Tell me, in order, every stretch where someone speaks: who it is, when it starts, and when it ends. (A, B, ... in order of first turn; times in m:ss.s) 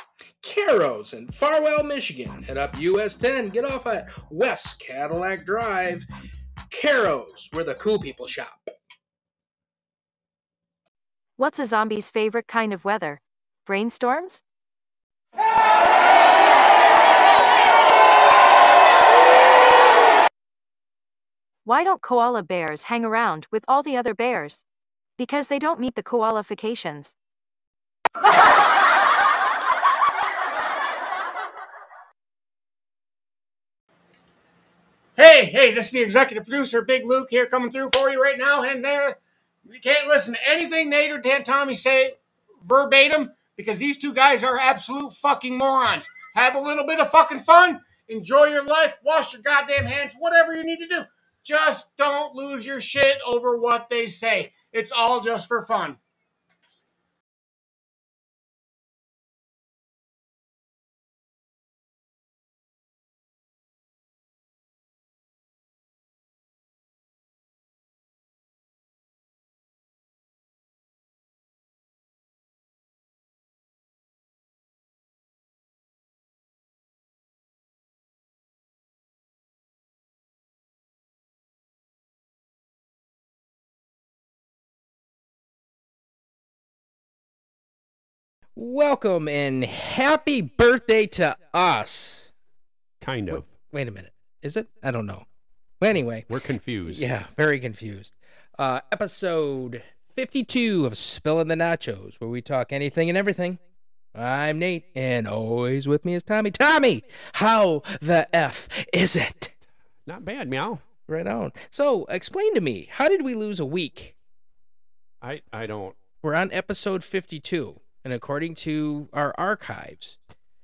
0:00.4-0:06.1 A
0:06.7-0:08.7 A
0:11.4-0:14.4 B
0:21.6-0:24.6 B
0:25.2-0:27.1 B
0:35.2-0:56.0 C
1:28.6-1:32.3 A
1:33.0-1:33.5 D
1:33.3-1:35.3 A
1:35.8-1:36.3 A
1:36.3-1:37.1 D
1:36.9-1:43.6 A
1:44.2-1:49.5 A
1:50.1-1:50.8 D
1:51.1-1:54.2 A
1:55.2-1:56.0 D
1:56.2-2:00.2 A